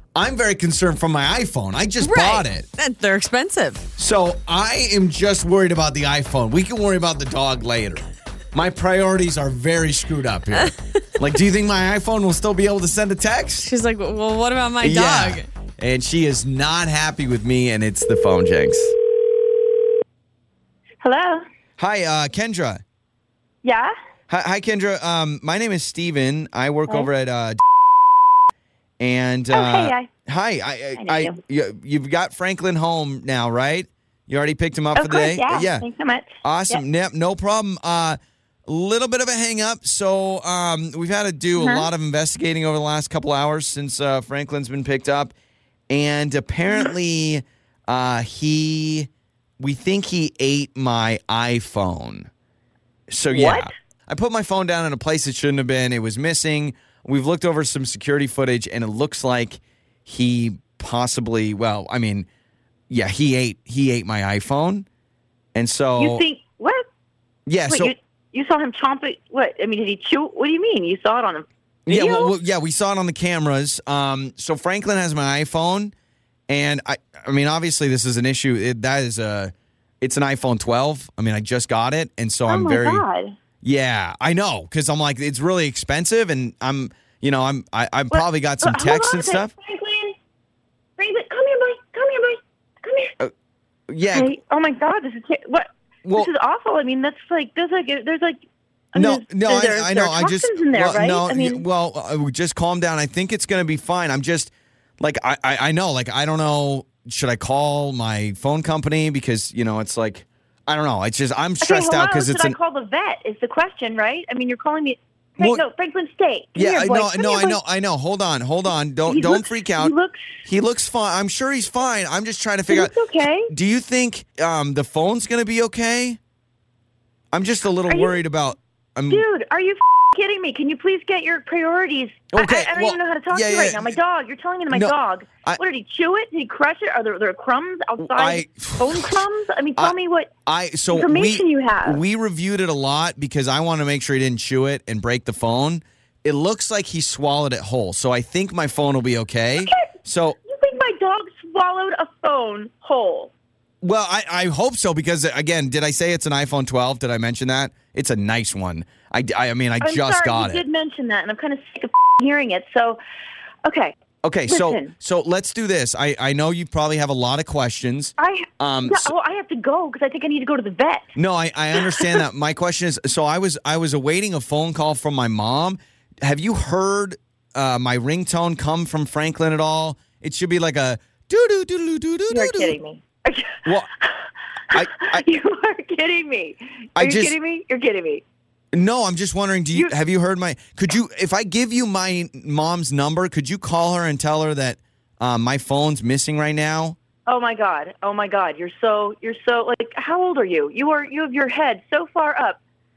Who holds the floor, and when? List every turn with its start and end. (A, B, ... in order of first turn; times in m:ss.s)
0:00.2-0:02.6 A
0:02.0-0:03.9 B
0:04.0-0:13.7 A
0:13.6-0:15.5 B
0:14.8-0:18.9 A
0:21.0-0:21.4 C
0:21.8-0:22.8 A
0:23.6-0:23.9 C
0:24.3-0:27.6 A
0:29.0-0:35.8 A
0:29.5-0:30.1 C
0:31.0-0:31.4 C
0:35.0-0:36.8 C
0:36.4-0:45.3 A
0:41.6-0:41.9 C
0:45.9-0:52.3 A
0:53.1-1:02.3 A
0:53.3-0:53.7 C
1:02.9-1:04.9 A
1:05.5-1:06.2 A
1:06.0-1:06.8 C
1:07.5-1:07.9 A
1:07.7-1:12.3 C
1:11.9-1:15.9 A
1:16.5-1:23.0 A
1:22.5-1:23.3 C
1:23.6-1:29.5 A
1:28.1-1:30.2 C
1:31.0-1:33.1 C
1:33.9-1:34.3 A
1:34.1-1:41.6 C
1:36.0-1:36.3 A
1:38.9-1:52.6 A
1:51.6-1:57.6 C
1:56.6-1:59.9 A
1:59.1-2:00.3 C
2:00.4-2:02.9 A
2:02.7-2:03.5 C
2:03.5-2:06.2 A
2:07.3-2:09.2 A
2:07.9-2:08.2 C
2:09.1-2:20.3 C
2:12.3-2:14.0 A
2:14.7-2:15.6 A
2:18.0-2:19.2 A
2:19.8-2:30.4 A
2:20.9-2:22.0 C
2:29.6-2:29.9 C
2:30.4-2:33.3 C
2:33.8-2:40.6 A
2:39.8-2:43.0 C
2:43.6-2:44.0 C
2:44.2-2:49.1 A
2:44.5-2:44.9 C
2:48.2-2:51.1 C
2:51.2-3:02.8 A
2:51.8-2:52.2 C
3:02.3-3:08.2 C
3:04.7-3:05.2 A
3:07.0-3:07.3 A
3:08.7-3:17.0 A
3:17.2-3:22.6 C